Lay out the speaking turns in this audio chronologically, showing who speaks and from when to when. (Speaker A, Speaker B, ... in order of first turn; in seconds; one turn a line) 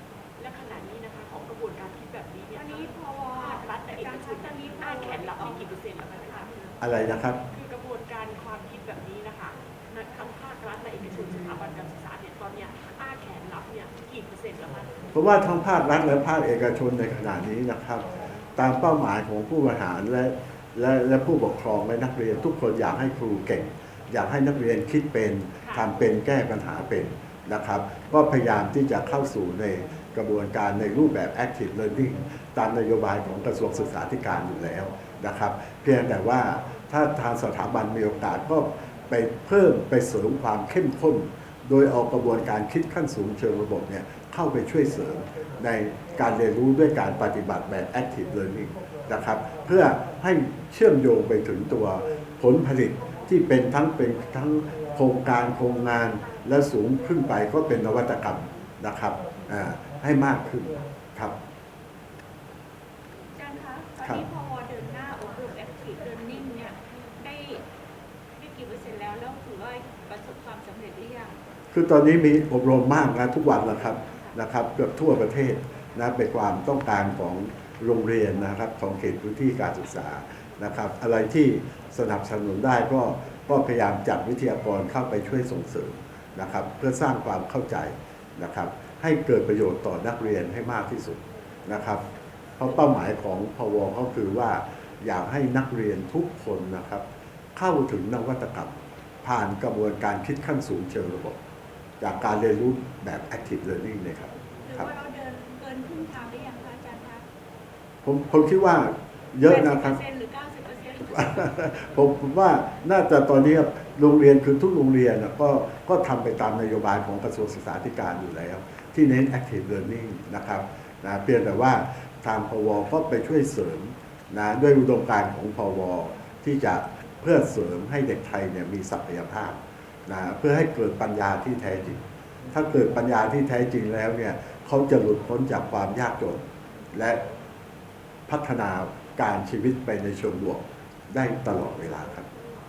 Speaker A: 0.4-6.6
Speaker B: 2.5-5.6
Speaker C: 6.8-7.4
Speaker A: 7.5-15.0
Speaker C: 15.1-61.3
Speaker B: 63.3-67.6
Speaker B: 68.4-71.3
Speaker C: 71.7-92.0
Speaker C: 92.6-97.0
Speaker C: 97.5-98.7
Speaker C: 99.2-101.4
Speaker C: 102.0-104.9
Speaker B: 104.7-107.3
Speaker C: 108.0-110.0
Speaker B: 109.4-111.3
Speaker C: 111.1-137.2
Speaker C: 138.3-142.3